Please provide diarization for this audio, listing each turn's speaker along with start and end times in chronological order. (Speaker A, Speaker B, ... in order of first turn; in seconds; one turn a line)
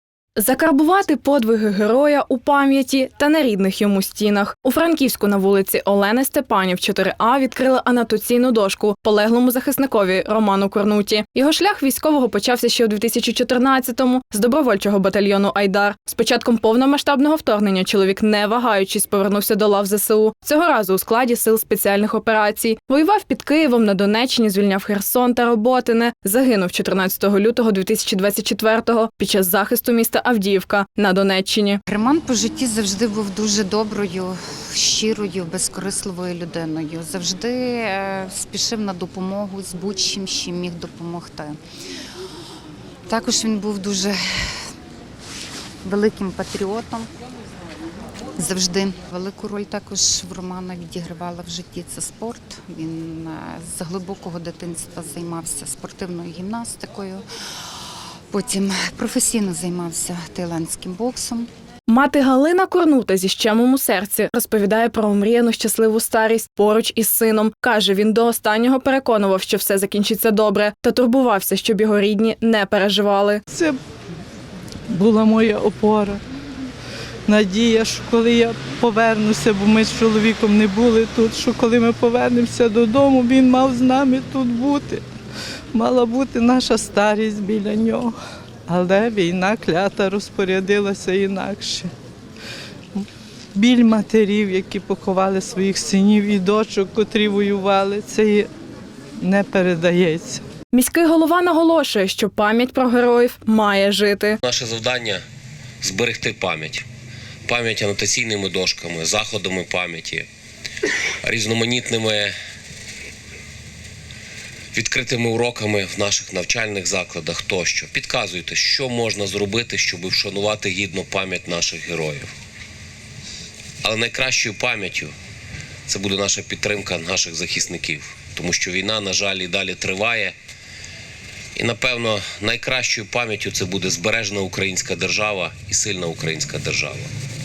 Speaker A: 0.4-31.8
Speaker B: 31.9-41.6
Speaker B: 43.1-44.2
Speaker B: 45.8-47.1
Speaker B: 48.4-57.2
Speaker B: 58.3-61.5
Speaker A: 61.9-73.4
Speaker C: 73.5-73.8
Speaker C: 74.9-76.2
Speaker C: 77.3-85.0
Speaker C: 85.7-88.1
Speaker C: 88.7-91.9
Speaker C: 93.5-98.5
Speaker C: 99.2-100.4
Speaker A: 100.7-104.4
Speaker D: 104.4-105.2
Speaker D: 105.8-106.8
Speaker D: 107.5-110.3
Speaker D: 111.2-112.3
Speaker D: 114.7-122.3
Speaker D: 123.8-125.1
Speaker D: 125.9-130.3
Speaker D: 131.6-137.1